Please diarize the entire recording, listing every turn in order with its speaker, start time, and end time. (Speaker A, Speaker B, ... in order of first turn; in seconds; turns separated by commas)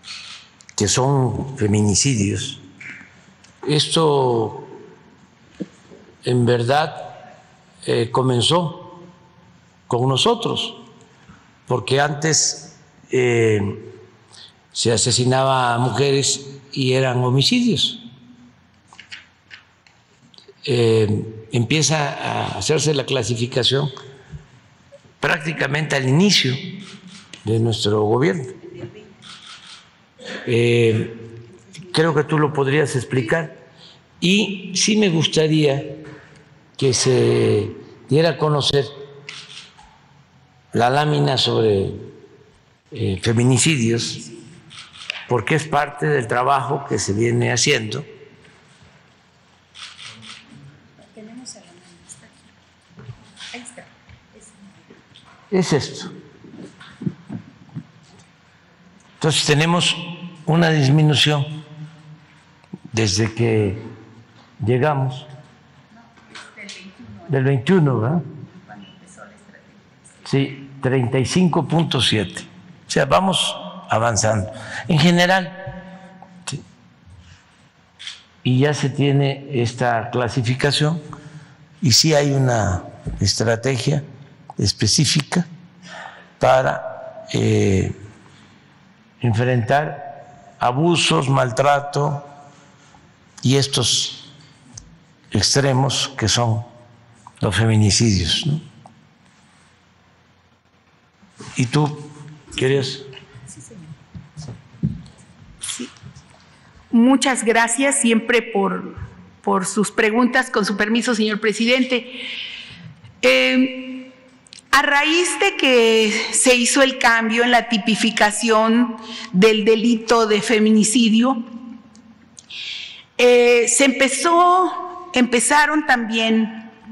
Speaker A: 0.8-2.6, Speaker A: 3.6-4.8, Speaker A: 6.2-7.2, Speaker A: 7.8-9.0, Speaker A: 9.9-10.8, Speaker A: 11.7-13.9, Speaker A: 14.7-18.0, Speaker A: 20.6-23.9, Speaker A: 25.2-26.6, Speaker A: 27.4-28.6, Speaker A: 30.4-31.2, Speaker A: 31.9-33.6, Speaker A: 34.2-36.0, Speaker A: 36.8-38.9, Speaker A: 40.7-42.1, Speaker A: 42.9-44.2, Speaker A: 45.3-48.0, Speaker B: 51.1-52.2, Speaker B: 53.5-53.8, Speaker A: 55.5-56.1, Speaker A: 59.2-61.5, Speaker A: 62.9-63.8, Speaker A: 64.6-65.3, Speaker B: 66.3-67.2, Speaker A: 67.2-68.2, Speaker B: 68.7-69.8, Speaker A: 70.2-75.7, Speaker A: 78.4-81.0, Speaker A: 81.8-84.0, Speaker A: 84.6-85.5, Speaker A: 86.4-87.9, Speaker A: 89.2-92.3, Speaker A: 93.4-94.3, Speaker A: 95.3-96.7, Speaker A: 97.4-98.6, Speaker A: 101.5-103.1, Speaker B: 106.9-112.2, Speaker B: 113.2-114.1, Speaker B: 114.7-121.4, Speaker B: 123.2-126.7